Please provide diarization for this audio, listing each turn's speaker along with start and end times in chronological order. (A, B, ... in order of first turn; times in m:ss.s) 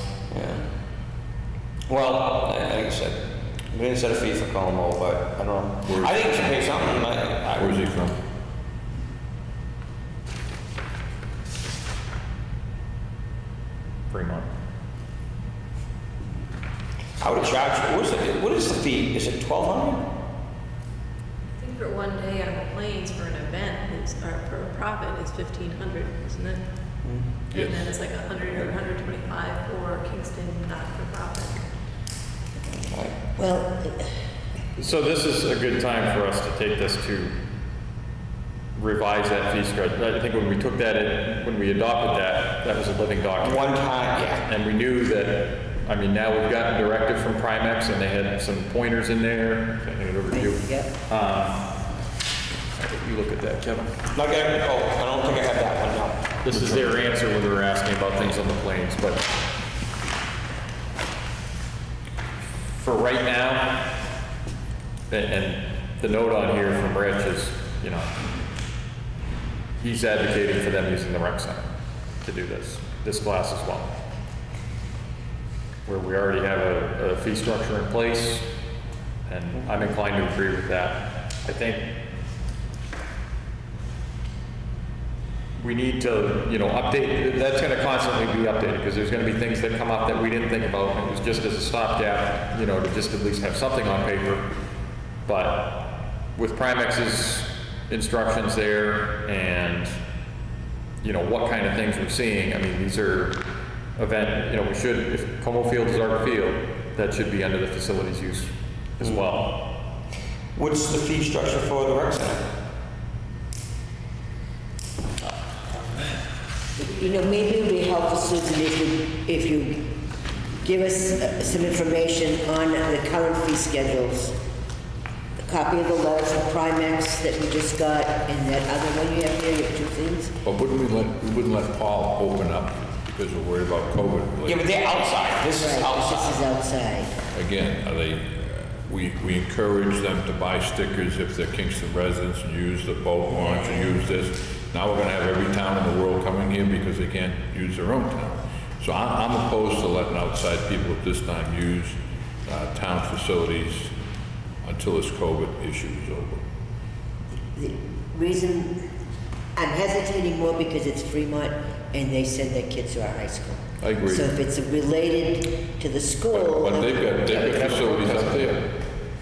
0:00.3-0:00.6 A
0:01.9-0:07.9 A
0:05.9-0:07.0 B
0:07.6-0:08.2 B
0:14.1-0:14.5 C
0:17.2-0:20.1 A
0:21.6-0:26.6 D
0:27.0-0:27.3 A
0:27.5-0:31.6 D
0:27.5-0:27.8 B
0:32.9-0:33.2 A
0:33.4-0:34.1 E
0:34.8-0:37.4 C
0:38.7-0:51.6 C
0:43.4-0:44.4 A
0:50.3-0:50.9 E
0:52.8-0:53.9 C
0:54.1-0:56.3 A
0:56.4-0:59.3 C
1:02.8-1:03.9 C
1:05.1-1:08.1 C
1:09.8-1:11.7 C
1:12.2-1:13.9 C
1:15.8-1:18.5 C
1:19.2-1:21.9 C
1:25.6-1:34.5 C
1:35.2-1:40.0 C
1:41.0-1:43.4 C
1:44.0-1:49.6 C
1:50.6-1:52.5 A
1:56.8-1:59.9 E
2:00.6-2:04.4 E
2:05.4-2:10.4 E
2:10.4-2:14.7 B
2:14.4-2:16.4 A
2:15.5-2:17.1 E
2:17.3-2:33.9 B
2:34.6-2:36.4 B
2:37.5-2:38.8 E
2:39.6-2:47.3 E
2:43.8-2:44.3 B
2:46.3-2:48.8 B
2:47.3-2:48.4 C